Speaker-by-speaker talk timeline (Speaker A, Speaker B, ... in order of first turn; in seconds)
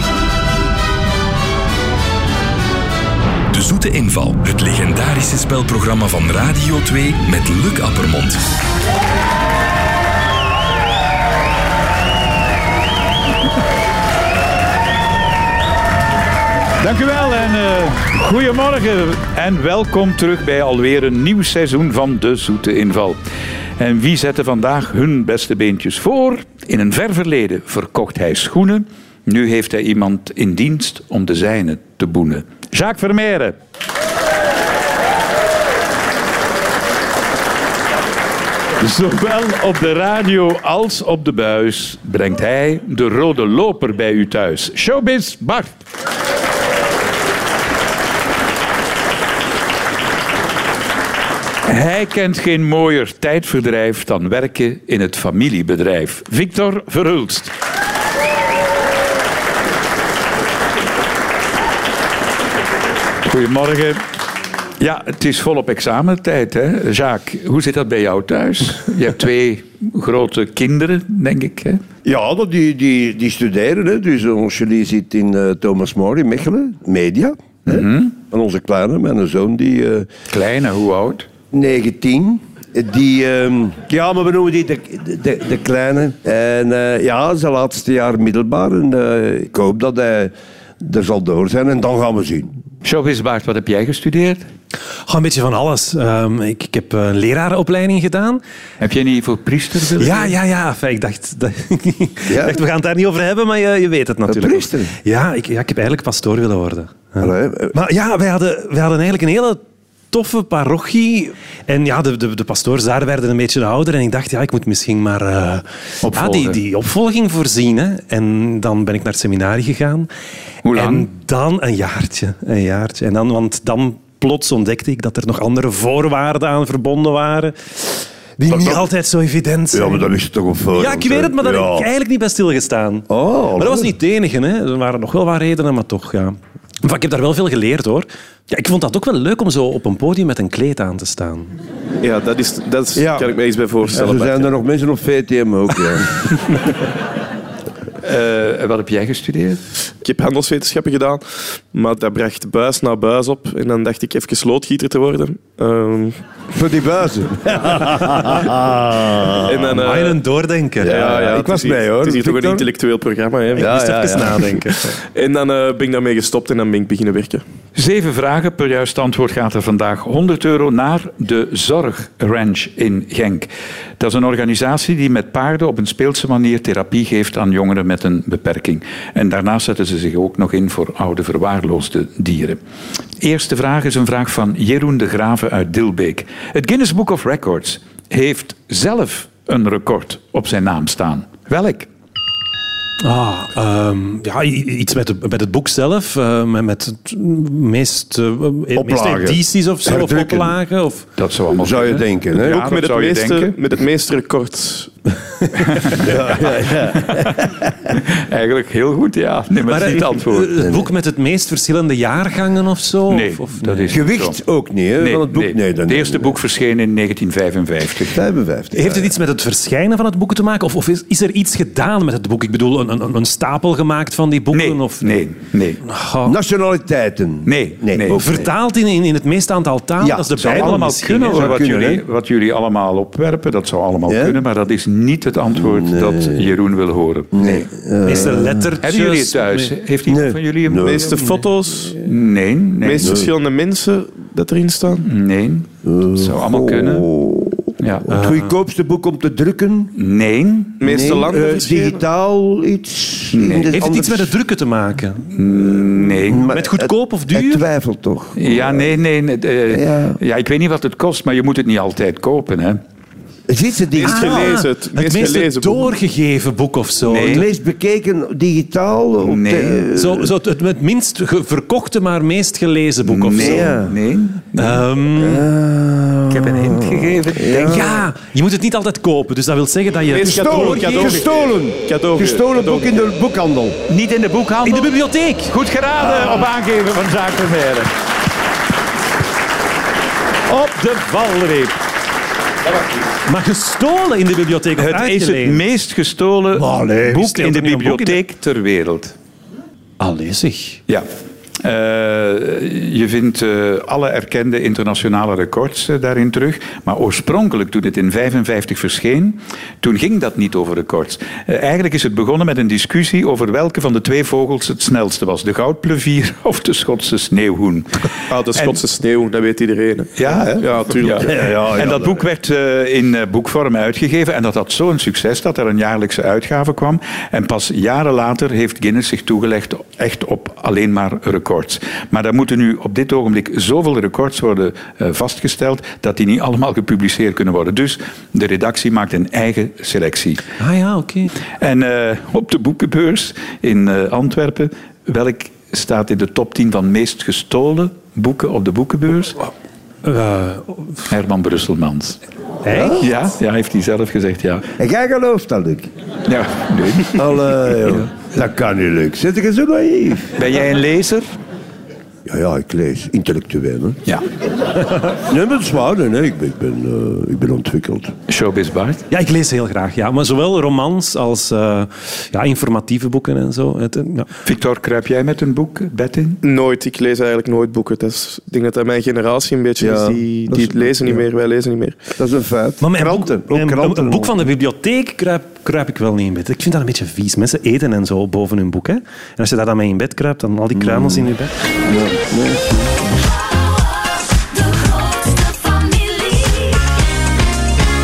Speaker A: 3.5-8.4
Speaker B: 16.8-23.2, 23.8-33.5, 38.8-45.7, 51.6-57.5, 63.2-64.0, 64.8-71.8, 77.7-78.1, 80.3-81.3, 92.8-94.4, 98.8-100.3, 116.0-116.6, 120.6-121.1, 148.0-149.6, 167.7-182.6, 183.2-191.9, 201.2-203.5, 205.6-206.1, 207.0-207.4, 207.9-210.6, 213.1-214.3, 215.0-218.2, 224.5-225.8, 227.4-228.3, 230.4-237.7, 238.8-241.2, 242.0-243.2, 245.0-247.1, 247.8-248.0, 249.9-251.0, 253.3-253.7, 255.3-256.5, 258.4-262.8, 267.1-267.4, 269.2-269.8, 273.0-274.8, 276.4-277.8, 283.9-284.9, 285.5-287.9, 290.5-291.7, 294.8-299.1, 301.6-318.8, 320.1-340.4, 341.6-349.4, 351.1-352.2, 352.9-354.6, 356.3-358.0, 360.4-361.2, 368.3-369.0, 374.4-376.4
Speaker C: 72.0-80.1, 81.5-92.5, 102.3-102.6, 104.2-104.9, 107.2-107.7, 128.4-128.9, 129.7-131.9, 133.1-133.9, 142.9-143.3, 143.9-146.2, 156.5-159.7, 160.8-162.7, 163.6-164.6, 198.7-200.5, 201.6-202.7, 205.9-207.5, 213.9-216.3, 218.1-219.1, 226.2-228.3, 230.0-232.0, 234.1-234.4, 235.6-236.5, 237.3-238.7, 240.1-241.2, 243.0-243.3, 245.8-249.9, 250.8-254.3, 255.7-258.9, 259.7-260.2, 263.5-264.6, 267.1-270.3, 273.4-273.9, 275.2-278.0, 280.2-283.8, 286.0-286.4, 296.6-297.2, 321.2-322.2, 354.8-355.9, 357.1-360.3, 362.2-364.0, 365.3-368.1, 379.8-381.2, 382.1-384.4, 390.7-391.3, 391.9-393.0
Speaker D: 95.1-98.4, 100.0-109.6, 110.1-120.1, 120.7-127.5, 128.5-130.1, 130.8-141.5, 159.7-161.0, 163.6-164.9, 193.0-201.1, 209.6-214.0, 218.7-225.2, 225.8-226.3, 228.1-231.6, 238.0-239.7, 248.1-248.5, 253.7-255.3, 256.4-257.6, 264.0-267.4, 269.9-273.8, 274.6-275.5, 276.3-281.3, 284.6-285.5, 293.3-295.6, 297.1-298.2, 300.0-300.8, 340.6-341.3, 350.0-351.0, 352.6-353.0, 369.1-374.3, 382.8-391.5
Speaker E: 142.0-144.5, 150.0-156.2, 159.4-160.2, 160.8-164.2, 165.1-167.4, 202.6-204.9, 240.8-242.1, 242.8-245.1, 250.8-252.0, 263.9-265.9, 280.1-282.9, 318.3-321.5, 376.4-382.0
Speaker F: 394.0-396.9